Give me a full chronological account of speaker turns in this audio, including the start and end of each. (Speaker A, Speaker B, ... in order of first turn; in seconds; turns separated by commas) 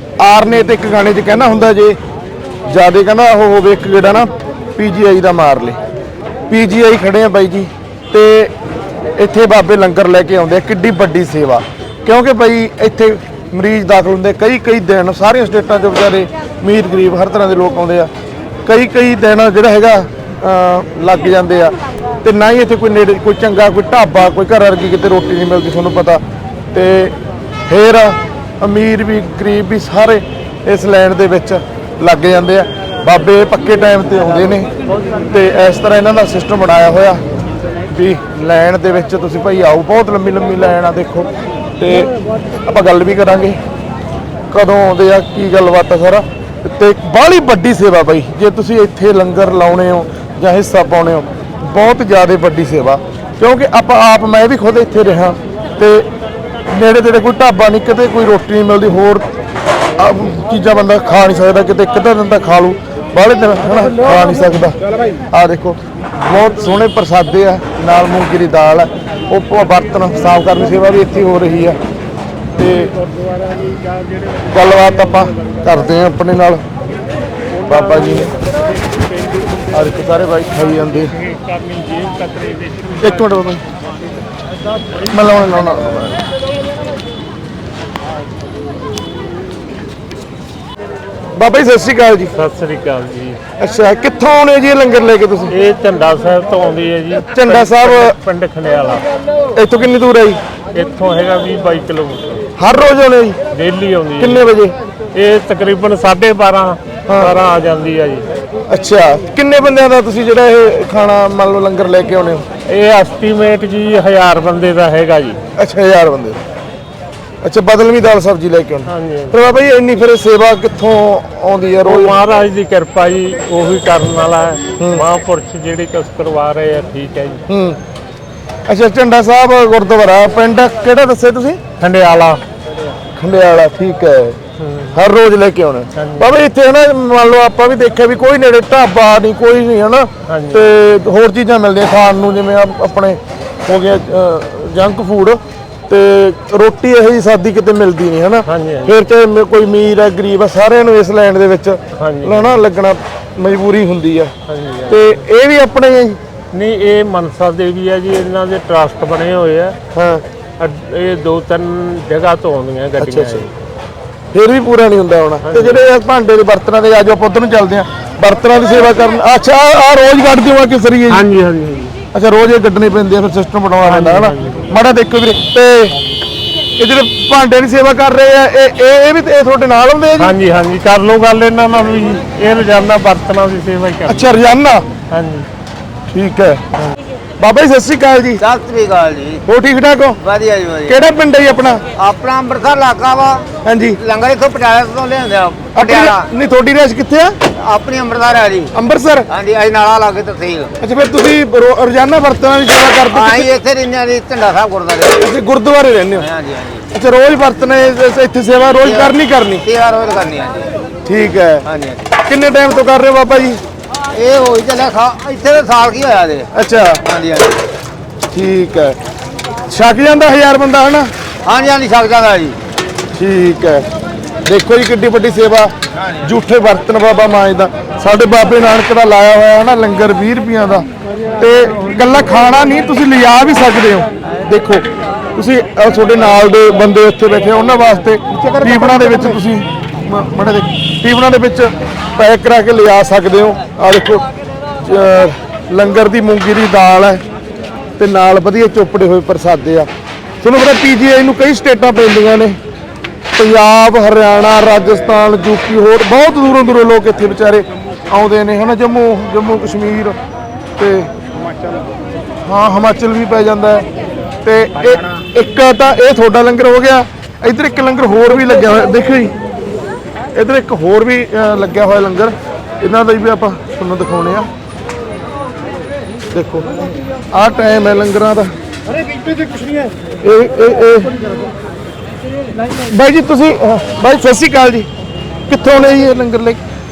Speaker A: 0.2-2.0, Speaker A: 2.7-5.8, Speaker A: 6.5-8.5, Speaker A: 9.2-18.1, Speaker A: 18.7-26.2, Speaker A: 26.7-27.1, Speaker A: 27.7-34.7, Speaker A: 35.3-37.2, Speaker A: 37.9-42.1, Speaker A: 42.6-43.6, Speaker A: 44.5-56.1, Speaker A: 56.7-59.3, Speaker A: 60.0-64.8, Speaker A: 65.3-71.8, Speaker A: 72.5-73.0, Speaker A: 74.5-76.6, Speaker A: 77.7-78.3, Speaker A: 79.7-81.2, Speaker B: 81.1-83.0, Speaker A: 83.0-83.6, Speaker A: 85.1-86.2, Speaker A: 91.3-92.3, Speaker B: 92.3-93.4, Speaker A: 93.6-95.5, Speaker B: 95.5-99.1, Speaker A: 97.2-98.2, Speaker A: 99.5-100.4, Speaker B: 100.7-102.5, Speaker A: 102.6-103.4, Speaker B: 103.5-104.5, Speaker A: 104.2-104.8, Speaker B: 105.2-108.2, Speaker A: 107.1-107.4, Speaker A: 108.7-112.4, Speaker B: 112.7-115.4, Speaker A: 115.6-116.4, Speaker A: 117.4-122.2, Speaker B: 118.9-119.4, Speaker B: 121.8-127.4, Speaker A: 124.8-125.0, Speaker A: 127.5-127.8, Speaker A: 128.7-131.6, Speaker B: 131.8-132.4, Speaker A: 133.2-134.4, Speaker B: 134.6-135.0, Speaker A: 134.9-154.3, Speaker B: 135.9-136.3, Speaker B: 140.3-140.7, Speaker B: 148.5-149.0, Speaker B: 151.9-152.6, Speaker B: 154.5-155.2, Speaker A: 154.9-156.2, Speaker B: 156.5-159.8, Speaker A: 159.9-160.2, Speaker B: 160.6-163.5, Speaker A: 163.0-163.4, Speaker A: 164.3-171.3, Speaker B: 165.4-165.8, Speaker B: 171.1-171.9, Speaker A: 172.1-176.0, Speaker B: 173.8-174.7, Speaker A: 176.8-180.3, Speaker B: 180.2-184.4, Speaker A: 184.1-184.9, Speaker B: 185.1-185.5, Speaker A: 186.1-186.6, Speaker A: 187.4-188.4, Speaker C: 188.4-189.4, Speaker A: 189.5-190.2, Speaker C: 190.2-191.0, Speaker A: 190.9-191.8, Speaker C: 191.9-196.3, Speaker A: 193.7-194.0, Speaker A: 195.8-197.4, Speaker C: 197.5-198.7, Speaker A: 198.7-199.3, Speaker C: 199.3-200.8, Speaker A: 200.8-203.5, Speaker C: 203.1-205.3, Speaker A: 205.2-206.3, Speaker C: 206.2-206.9, Speaker A: 206.9-209.7, Speaker C: 208.8-210.8, Speaker A: 211.1-211.7, Speaker C: 211.7-212.1, Speaker A: 212.2-213.6, Speaker C: 214.1-216.5, Speaker A: 216.5-217.0, Speaker C: 217.0-217.6, Speaker A: 218.3-219.0, Speaker A: 219.7-221.1, Speaker C: 221.4-222.6, Speaker A: 223.1-223.8, Speaker A: 224.5-230.9, Speaker A: 231.4-244.3, Speaker A: 244.8-247.2, Speaker A: 248.0-249.9, Speaker A: 250.4-252.6, Speaker A: 253.3-260.2, Speaker A: 260.8-261.1, Speaker A: 262.4-263.9, Speaker A: 264.4-269.4, Speaker A: 270.4-274.5, Speaker A: 276.3-276.8, Speaker A: 277.3-278.5, Speaker A: 280.2-281.2, Speaker A: 282.8-284.9, Speaker A: 285.5-286.6